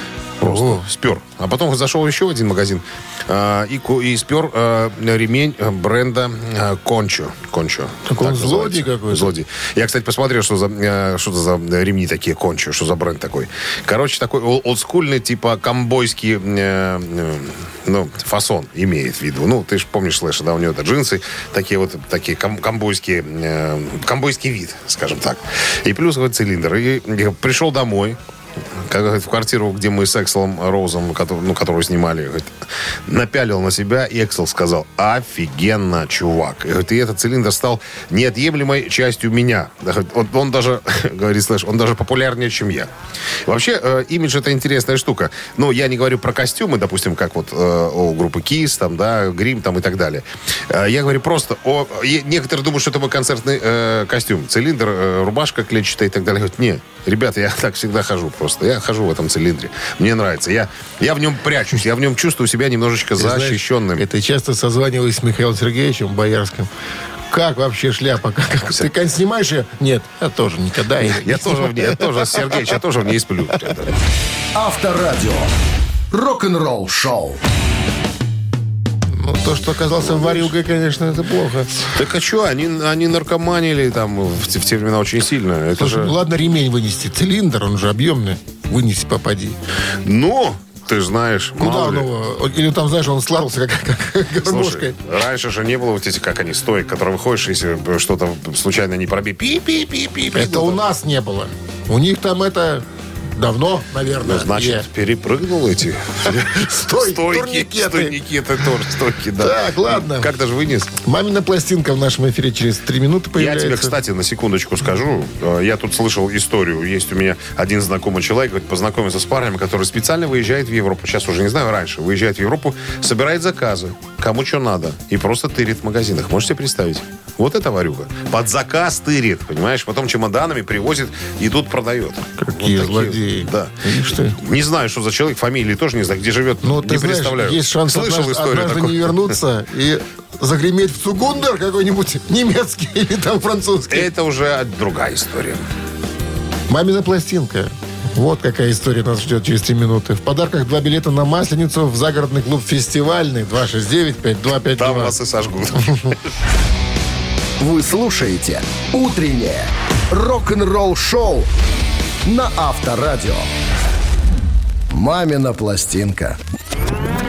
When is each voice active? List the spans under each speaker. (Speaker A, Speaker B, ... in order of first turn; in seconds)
Speaker A: 0.4-28.2, 28.8-32.5, 33.1-42.9, 43.5-64.0, 71.0-74.0, 80.0-80.5, 81.9-86.1, 90.0-92.1, 94.4-100.8, 104.2-110.9, 113.3-133.7, 134.3-139.3, 143.9-145.6, 154.7-156.2
Speaker B: 0.4-0.8, 8.1-9.3, 63.2-66.7, 67.3-72.8, 79.1-81.9, 85.8-89.6, 91.6-95.0, 100.3-104.9, 106.3-108.1, 109.4-110.3, 111.0-113.9, 132.4-134.4, 136.6-144.1, 146.7-155.1, 155.8-156.1
Speaker C: 74.5-75.5, 76.1-77.4, 157.6-161.5, 162.2-163.5, 164.9-166.4